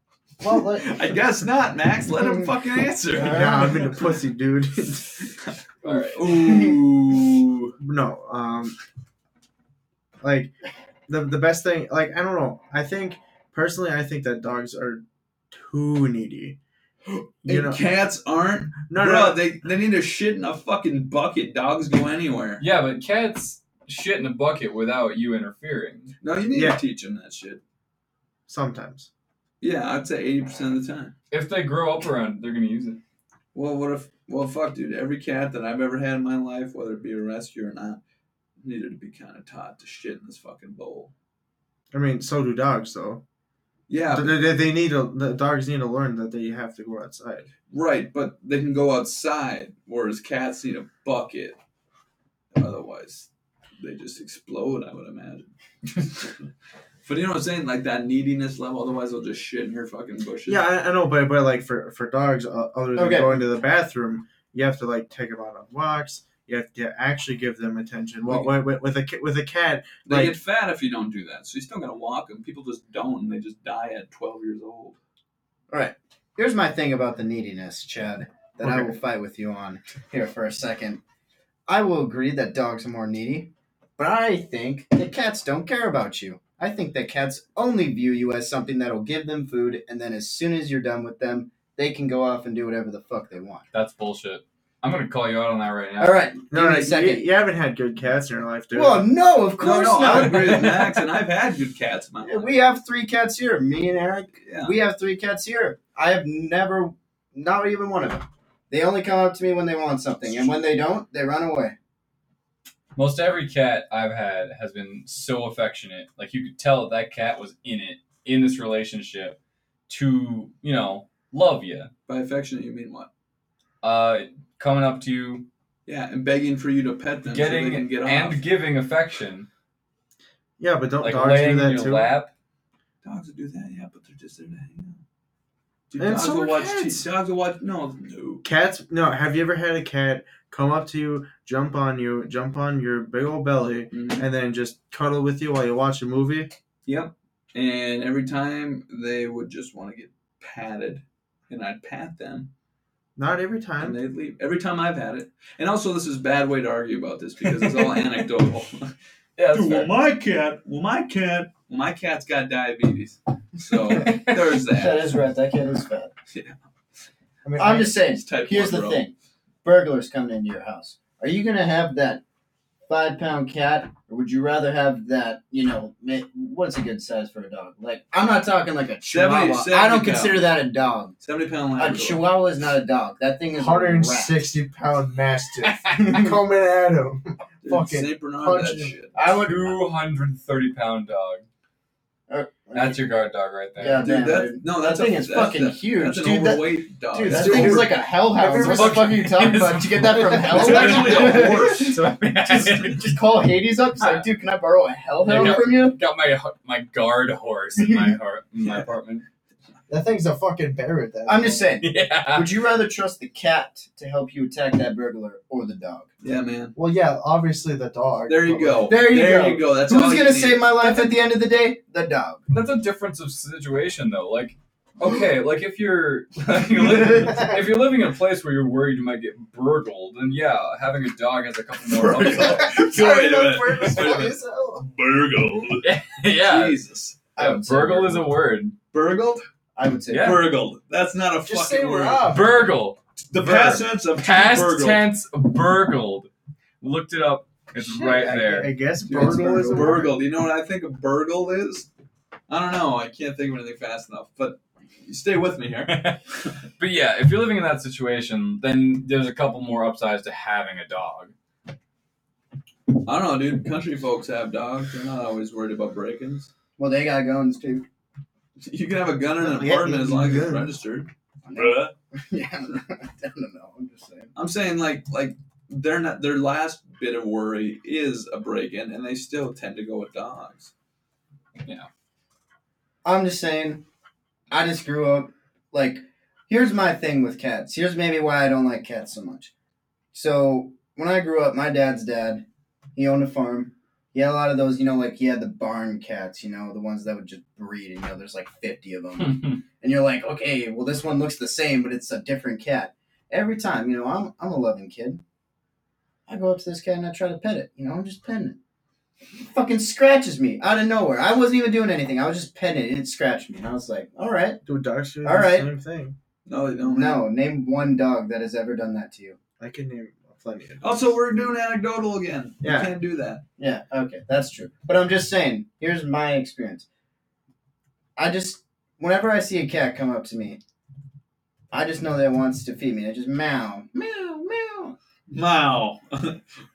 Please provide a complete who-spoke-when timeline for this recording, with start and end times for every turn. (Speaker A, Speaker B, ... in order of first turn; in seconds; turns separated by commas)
Speaker A: 0.4-1.1, Speaker B: 0.6-3.9, Speaker C: 3.1-3.9, Speaker A: 3.2-5.3, Speaker B: 5.4-7.8, Speaker D: 5.8-6.2, Speaker A: 7.8-8.8, Speaker A: 10.2-10.5, Speaker A: 11.1-16.6, Speaker B: 17.4-22.6, Speaker A: 17.4-17.8, Speaker A: 18.9-19.4, Speaker D: 22.6-26.1, Speaker B: 26.2-27.6, Speaker A: 26.5-26.8, Speaker A: 28.5-29.1, Speaker B: 29.6-31.1, Speaker D: 31.3-33.0, Speaker B: 33.5-38.0, Speaker B: 38.6-41.1, Speaker A: 41.9-43.2, Speaker B: 43.9-44.4, Speaker A: 44.1-47.5, Speaker B: 47.7-51.6, Speaker B: 52.5-53.3, Speaker B: 53.8-56.4, Speaker B: 57.0-60.6, Speaker A: 60.5-70.4, Speaker C: 63.0-63.4, Speaker B: 70.1-75.0, Speaker C: 75.7-81.0, Speaker A: 78.6-79.0, Speaker C: 81.7-93.6, Speaker D: 93.7-96.2, Speaker C: 96.0-97.2, Speaker A: 96.5-99.1, Speaker C: 98.7-100.9, Speaker B: 99.6-102.5, Speaker A: 100.3-100.6, Speaker C: 102.2-111.8, Speaker B: 104.4-104.8, Speaker D: 113.0-121.9, Speaker B: 122.1-123.1, Speaker D: 123.8-125.5, Speaker B: 125.9-128.4, Speaker D: 127.2-129.5, Speaker A: 130.6-132.1, Speaker D: 131.0-132.3, Speaker B: 133.0-135.0, Speaker B: 135.9-138.4, Speaker A: 136.0-137.1, Speaker A: 138.4-146.5, Speaker B: 143.9-144.3, Speaker B: 146.9-152.5, Speaker A: 153.2-154.0, Speaker B: 153.8-158.9, Speaker D: 159.4-159.9, Speaker B: 159.5-165.2, Speaker C: 164.1-166.1, Speaker B: 166.3-166.6, Speaker A: 167.4-167.9, Speaker C: 167.6-169.1, Speaker B: 168.0-169.0, Speaker C: 169.6-172.2, Speaker C: 172.9-181.1, Speaker B: 179.1-180.5, Speaker B: 181.2-182.2, Speaker C: 181.8-184.5, Speaker A: 183.5-189.0, Speaker B: 187.6-189.1, Speaker C: 189.1-189.8, Speaker D: 189.4-191.4, Speaker C: 192.3-193.0, Speaker D: 192.7-194.1, Speaker C: 193.8-206.0, Speaker B: 194.0-198.0, Speaker A: 197.3-199.2, Speaker D: 198.5-203.3, Speaker B: 200.5-202.0, Speaker D: 204.0-204.3, Speaker D: 205.2-209.2, Speaker C: 207.8-208.1, Speaker B: 208.6-208.9, Speaker A: 209.9-211.7, Speaker C: 211.3-216.1, Speaker D: 211.8-212.5, Speaker B: 216.2-216.8, Speaker A: 216.8-219.0, Speaker B: 218.3-221.0, Speaker C: 218.9-222.4, Speaker D: 222.5-232.9, Speaker B: 231.9-235.8, Speaker A: 232.3-234.9, Speaker D: 235.8-236.8, Speaker B: 236.4-237.2, Speaker C: 237.4-238.3, Speaker D: 237.4-238.8, Speaker B: 238.9-239.4, Speaker C: 239.8-240.4, Speaker D: 240.1-240.4, Speaker B: 240.2-242.3, Speaker A: 241.5-242.7, Speaker D: 242.3-246.3, Speaker B: 243.3-245.1, Speaker D: 246.8-248.7, Speaker A: 247.8-250.1, Speaker B: 249.0-251.9, Speaker C: 249.2-250.0, Speaker B: 252.5-256.1, Speaker D: 255.9-256.2, Speaker D: 256.8-261.3, Speaker B: 263.1-266.5, Speaker C: 266.8-267.9, Speaker B: 268.6-271.9, Speaker A: 269.4-270.7, Speaker C: 271.4-274.3, Speaker B: 274.4-280.7, Speaker C: 283.0-283.9, Speaker C: 284.5-289.5, Speaker C: 290.1-292.4, Speaker C: 293.0-305.2, Speaker D: 299.2-299.6, Speaker C: 306.3-308.6, Speaker C: 309.4-314.6, Speaker A: 314.6-316.1, Speaker C: 315.2-315.7, Speaker B: 316.5-317.2, Speaker C: 316.8-319.4, Speaker A: 319.6-321.1, Speaker B: 320.8-323.4, Speaker C: 323.6-326.9, Speaker C: 328.1-330.6, Speaker C: 331.7-335.0, Speaker B: 335.3-336.4